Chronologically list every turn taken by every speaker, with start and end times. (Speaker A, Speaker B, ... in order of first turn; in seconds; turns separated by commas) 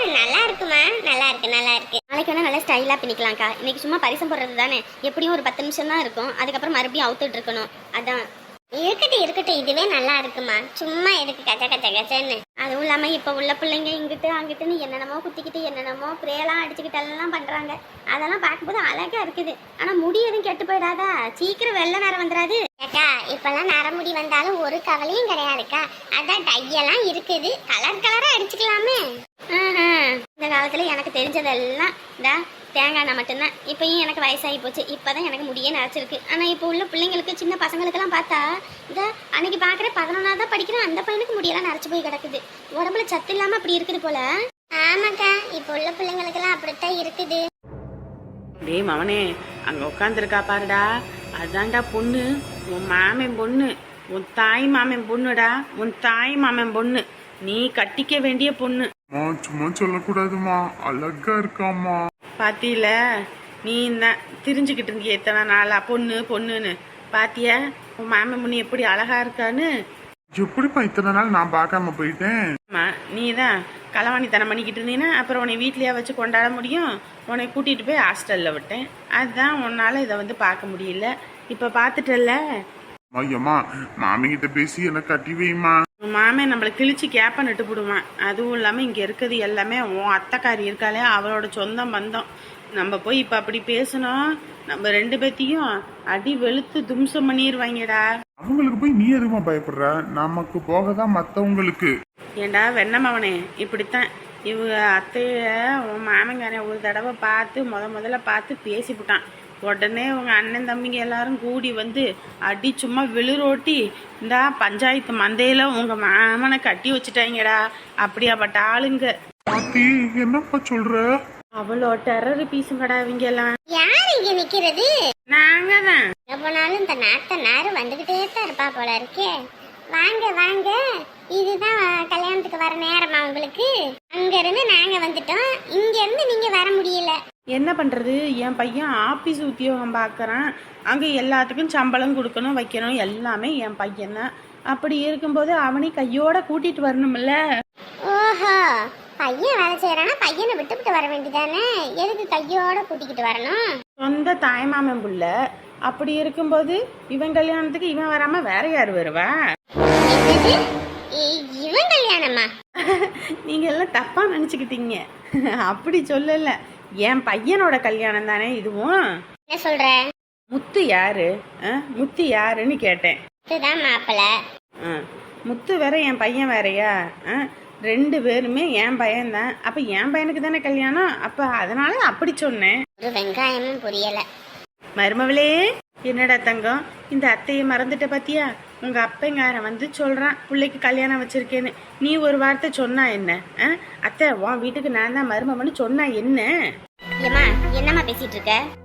Speaker A: 1.1-8.2, Speaker B: 8.8-9.8, Speaker B: 11.1-11.4, Speaker A: 12.4-22.6, Speaker B: 22.8-25.8, Speaker B: 26.4-29.0, Speaker A: 29.5-44.2, Speaker B: 44.8-47.4, Speaker C: 48.6-50.9, Speaker C: 51.4-58.9, Speaker D: 59.1-62.0, Speaker C: 62.4-63.0, Speaker C: 63.7-69.7, Speaker D: 70.4-72.3, Speaker C: 72.7-82.4, Speaker D: 83.1-85.8, Speaker C: 86.0-92.3, Speaker C: 92.8-98.0, Speaker D: 98.4-101.9, Speaker C: 102.4-119.1, Speaker D: 119.5-121.0, Speaker C: 121.6-123.5, Speaker B: 123.8-124.9, Speaker C: 125.3-126.0, Speaker B: 126.3-129.3, Speaker B: 129.9-130.8, Speaker B: 131.4-137.2, Speaker C: 137.6-147.4, Speaker B: 148.1-148.6, Speaker B: 149.2-153.6, Speaker C: 154.0-155.3, Speaker C: 155.9-159.3, Speaker B: 160.1-160.5, Speaker B: 161.2-162.4, Speaker C: 162.8-165.0, Speaker C: 165.7-168.9, Speaker B: 169.5-169.9, Speaker C: 170.5-173.2, Speaker B: 173.5-174.2, Speaker C: 174.8-182.7, Speaker B: 183.0-184.2, Speaker C: 185.0-185.6, Speaker C: 186.1-196.5, Speaker A: 197.2-198.6